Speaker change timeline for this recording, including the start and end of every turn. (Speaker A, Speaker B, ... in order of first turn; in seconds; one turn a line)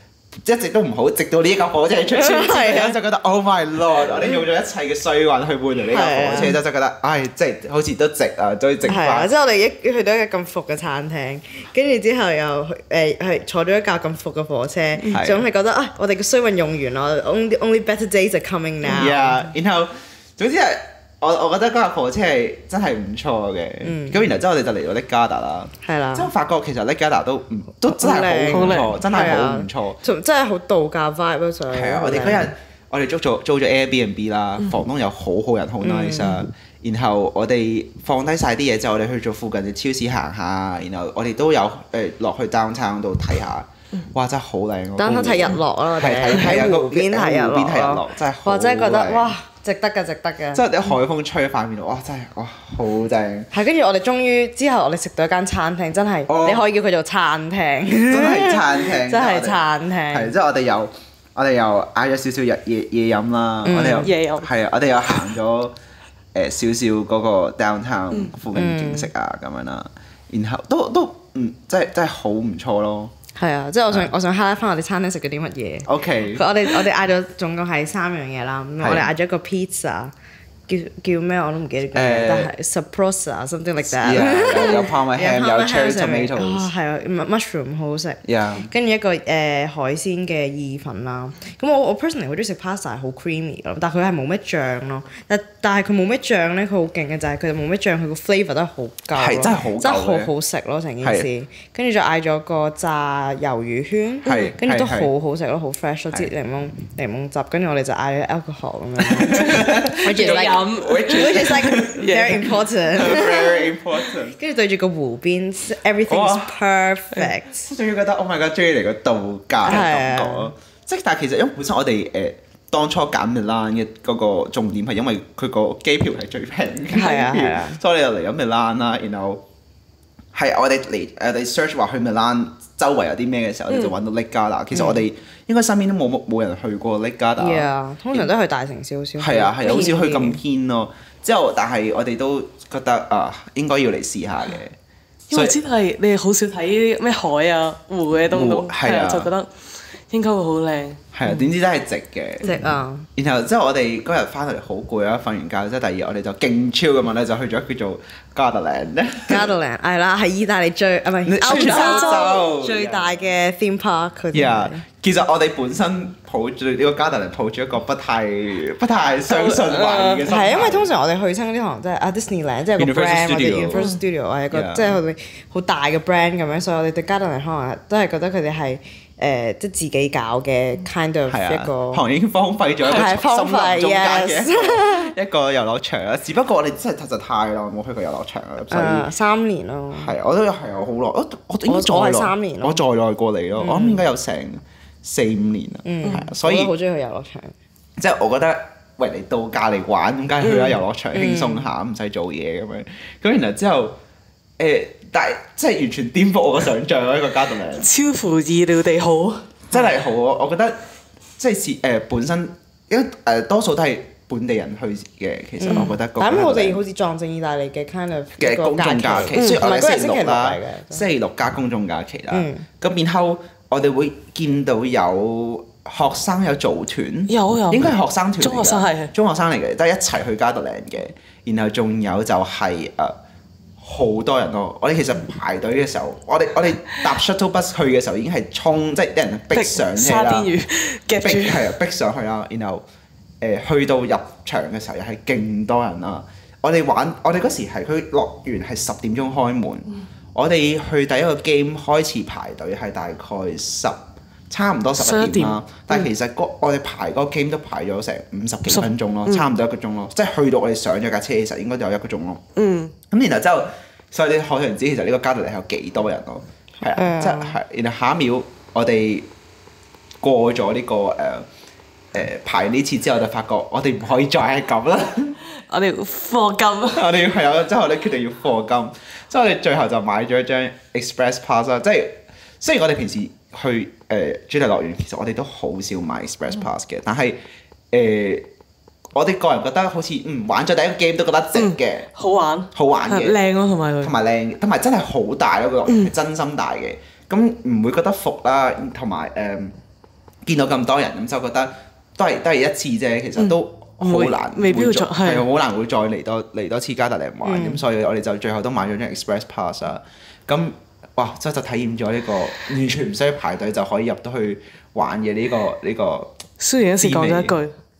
Speaker A: 0.4-9.3
Speaker B: 2.1-3.0
Speaker B: 5.8-6.6
Speaker B: 8.9-19.4
Speaker A: 15.1-15.4
Speaker A: 18.8-30.0
Speaker B: 23.8-24.2
Speaker B: 25.8-26.3
Speaker B: 27.9-32.5
Speaker C: 28.5-29.0
Speaker A: 31.7-49.3
Speaker B: 35.8-36.4
Speaker B: 45.0-50.6
Speaker A: 50.5-53.5
Speaker B: 53.5-60.3
Speaker A: 56.3-56.6
Speaker A: 58.1-65.7
Speaker B: 63.6-64.1
Speaker C: 64.0-64.5
Speaker A: 66.3-73.1
Speaker B: 68.5-69.1
Speaker B: 73.3-80.1
Speaker A: 75.8-76.4
Speaker A: 78.8-79.1
Speaker B: 80.7-117.7
Speaker A: 81.9-82.5
Speaker A: 83.9-86.7
Speaker A: 88.2-88.7
Speaker A: 99.1-100.3
Speaker A: 101.0-101.3
Speaker A: 104.2-105.1
Speaker A: 109.0-112.3
Speaker C: 110.0-112.5
Speaker A: 112.8-114.4
Speaker A: 116.1-116.5
Speaker A: 117.6-129.4
Speaker B: 119.6-120.5
Speaker B: 126.9-127.8
Speaker A: 130.3-138.3
Speaker B: 134.7-135.0
Speaker B: 137.4-140.4
Speaker A: 139.2-144.7
Speaker C: 145.3-149.5
Speaker A: 145.3-145.6
Speaker A: 148.3-149.3
Speaker C: 150.1-151.0
Speaker A: 151.1-152.5
Speaker B: 152.4-153.1
Speaker A: 153.2-159.5
Speaker B: 159.3-164.8
Speaker A: 161.2-163.3
Speaker C: 161.4-162.3
Speaker A: 164.3-170.9
Speaker C: 169.3-170.2
Speaker B: 170.2-182.0
Speaker A: 172.8-173.8
Speaker A: 174.5-175.0
Speaker A: 181.3-189.1
Speaker B: 182.8-185.1
Speaker B: 188.7-190.1
Speaker A: 189.9-196.7
Speaker B: 191.7-192.8
Speaker B: 193.6-194.0
Speaker B: 195.8-197.5
Speaker A: 198.0-203.9
Speaker C: 200.4-200.8
Speaker B: 201.1-201.7
Speaker A: 204.6-207.9
Speaker C: 207.8-209.5
Speaker A: 209.7-210.8
Speaker A: 211.4-216.8
Speaker B: 215.6-221.0
Speaker A: 218.4-233.2
Speaker C: 219.3-219.6
Speaker B: 222.3-222.7
Speaker C: 227.3-229.1
Speaker A: 233.8-240.5
Speaker C: 239.5-241.7
Speaker A: 241.2-242.8
Speaker A: 243.4-254.0
Speaker A: 254.5-262.4
Speaker C: 255.0-256.1
Speaker C: 258.7-259.5
Speaker C: 262.6-262.9
Speaker A: 263.1-269.3
Speaker B: 266.9-267.6
Speaker A: 270.2-271.5
Speaker A: 272.1-275.4
Speaker C: 275.7-277.1
Speaker A: 276.9-287.4
Speaker A: 287.9-288.5
Speaker A: 289.1-292.1
Speaker C: 291.5-294.1
Speaker A: 292.7-293.4
Speaker A: 294.0-299.7
Speaker C: 295.9-296.1
Speaker A: 300.4-316.3
Speaker C: 303.4-305.4
Speaker B: 307.4-307.8
Speaker C: 316.6-317.7
Speaker A: 317.0-317.6